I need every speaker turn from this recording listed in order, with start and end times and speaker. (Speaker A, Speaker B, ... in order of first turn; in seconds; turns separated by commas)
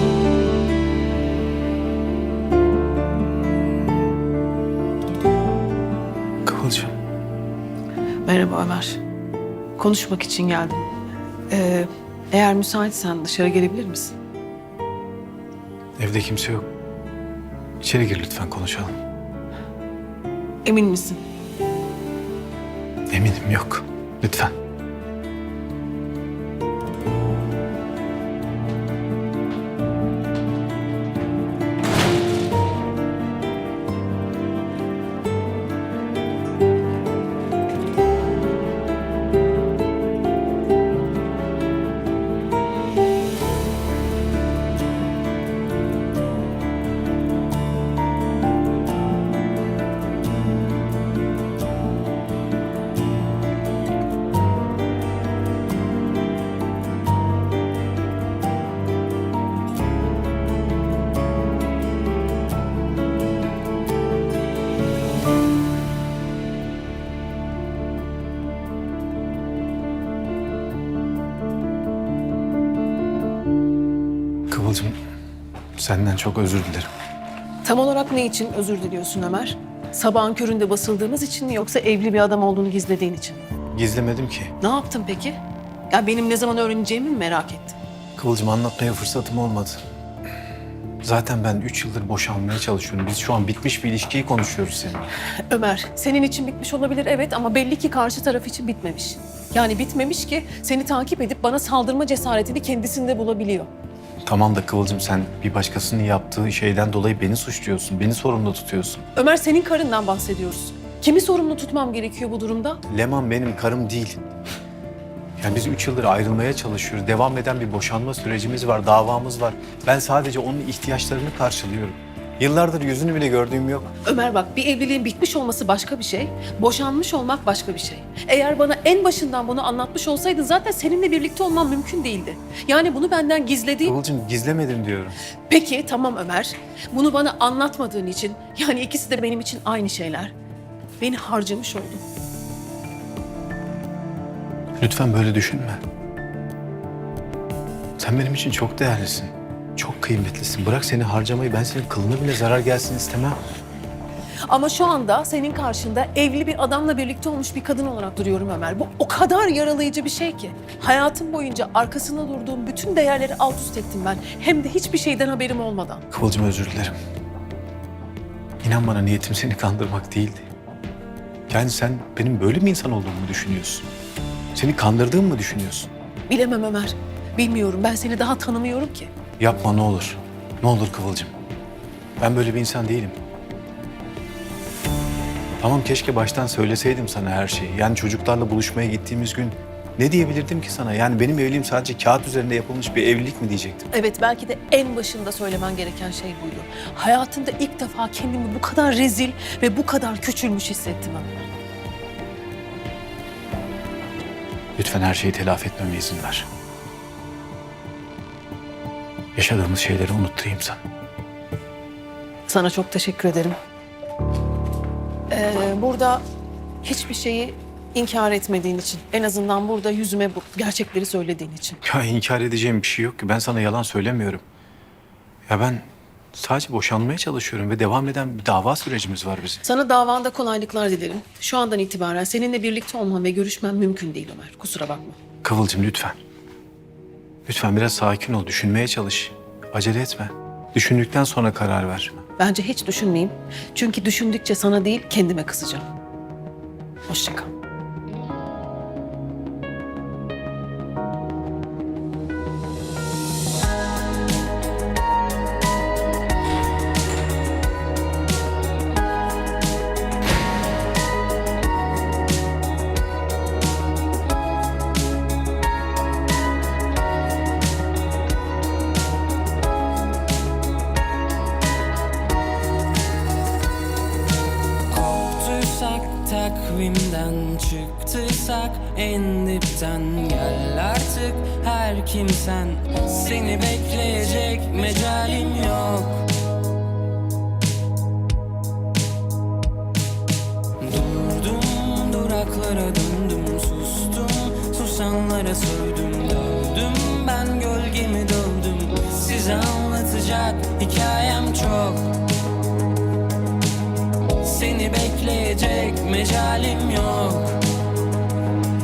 Speaker A: 6.5-6.9, Speaker B: 8.2-9.0, Speaker B: 9.8-10.9, Speaker B: 11.5-14.1, Speaker A: 16.0-16.7, Speaker A: 17.8-18.9, Speaker B: 20.6-21.2, Speaker A: 23.1-24.5, Speaker A: 74.5-75.0, Speaker A: 75.8-76.9, Speaker B: 77.6-83.4, Speaker A: 83.7-84.5, Speaker B: 84.6-85.4, Speaker B: 85.9-87.8, Speaker A: 88.2-89.8, Speaker A: 91.0-95.1, Speaker B: 95.5-103.7, Speaker A: 104.2-109.0, Speaker B: 109.2-112.8, Speaker A: 112.9-114.2, Speaker A: 115.4-123.9, Speaker B: 124.0-133.9, Speaker A: 133.8-135.2, Speaker B: 135.5-140.3, Speaker B: 141.0-142.0, Speaker A: 144.8-145.8, Speaker A: 148.0-153.4, Speaker B: 154.5-166.0, Speaker A: 166.1-166.9, Speaker A: 168.6-170.4, Speaker A: 171.5-173.9, Speaker A: 174.5-175.9, Speaker B: 176.3-179.1, Speaker A: 179.4-181.3, Speaker A: 182.2-183.2, Speaker A: 185.6-193.9, Speaker B: 193.9-201.5, Speaker A: 204.8-206.5, Speaker A: 209.3-210.8, Speaker B: 212.5-213.6, Speaker B: 215.3-216.2, Speaker B: 216.8-221.8, Speaker A: 221.8-224.4, Speaker A: 225.5-229.6, Speaker B: 229.6-235.2, Speaker A: 235.4-236.2, Speaker A: 237.5-242.2, Speaker B: 242.4-245.8, Speaker B: 247.1-247.5, Speaker C: 274.9-286.3, Speaker C: 290.8-302.2, Speaker C: 304.4-307.6